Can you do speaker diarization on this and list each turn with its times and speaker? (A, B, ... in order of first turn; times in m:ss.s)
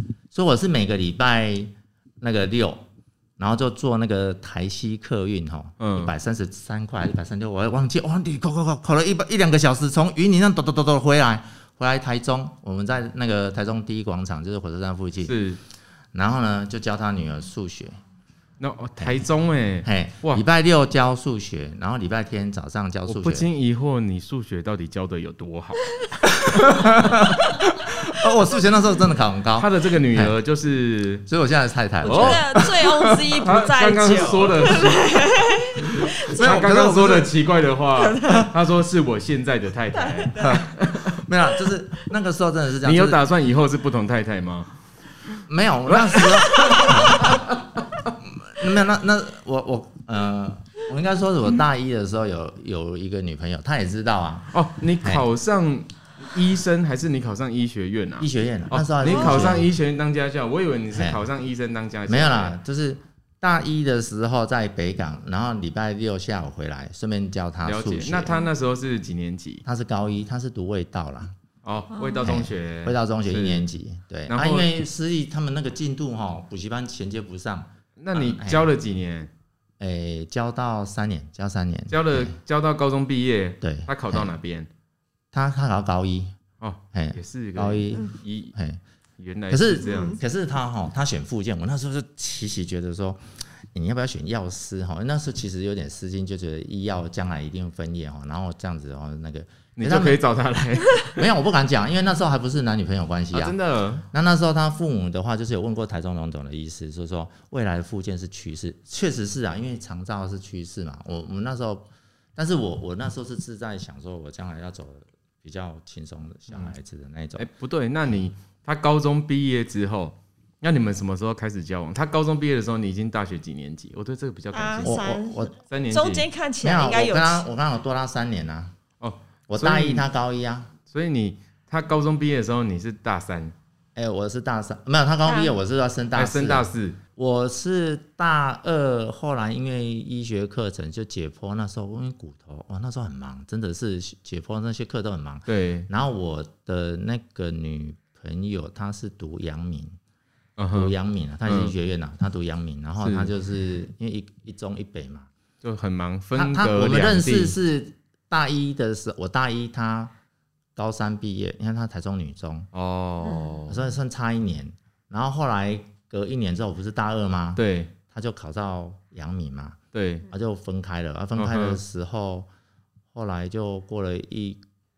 0:00.3-0:02.8 A
0:03.4-0:15.4 A
0:05.8-0:06.1 B
0:15.2-0:15.6 B
0:16.1-0:18.0 A
0:18.6-0:20.4 B
0:19.0-0:19.2 A
0:19.8-0:23.5 A
0:23.1-0:25.8 B
0:26.2-0:30.3 A
0:29.6-0:31.2 B
0:31.2-0:33.2 A
0:32.0-0:36.6 C
0:32.0-0:32.4 B
0:33.4-0:41.2 B
0:36.2-0:37.3 A
0:38.0-0:38.5 C
0:39.9-0:40.6 C
0:40.4-0:43.2 A
0:42.8-0:44.7 B
0:45.5-0:47.5 A
0:45.9-0:47.7 B
0:46.6-0:46.9 C
0:48.2-0:54.5 A
0:54.5-1:02.5 B
0:58.2-0:59.7 A
0:59.0-0:59.6 C
1:00.9-1:01.2 A
1:02.1-1:08.4 A
1:07.6-1:09.6 B
1:09.6-1:11.3 A
1:11.6-1:13.7 B
1:11.9-1:12.3 C
1:12.2-1:18.6 A
1:14.3-1:14.7 B
1:18.0-1:19.3 B
1:19.8-1:22.4 A
1:21.9-1:24.7 B
1:23.6-1:24.3 A
1:25.3-1:26.3 A
1:26.6-1:28.5 B
1:26.9-1:28.8 A
1:29.2-1:30.2 B
1:29.5-1:33.2 A
1:29.8-1:30.2 C
1:33.7-1:40.2 A
1:39.8-1:41.2 B
1:41.1-1:43.5 A
1:43.3-1:44.0 B
1:44.1-1:57.5 A
1:56.5-1:56.7 B
1:57.4-2:05.0 B
2:04.5-2:07.4 C
2:04.8-2:05.5 A
2:05.7-2:06.2 B
2:06.6-2:08.7 A
2:09.0-2:10.0 B
2:09.5-2:10.7 A
2:10.8-2:13.5 B
2:14.0-2:30.0 A
2:15.2-2:15.5 C
2:16.2-2:17.0 B
2:25.5-2:25.9 B
2:30.6-2:30.9 B
2:30.7-2:35.3 A
2:31.4-2:31.7 B
2:33.0-2:33.3 B
2:35.6-2:37.5 B
2:36.3-2:40.1 A
2:40.8-2:42.7 A
2:42.7-2:43.8 B
2:43.2-2:43.5 C
2:43.7-2:52.5 A
2:47.6-2:47.9 B
2:49.9-2:50.2 B
2:51.4-2:51.8 B
2:53.1-2:54.6 A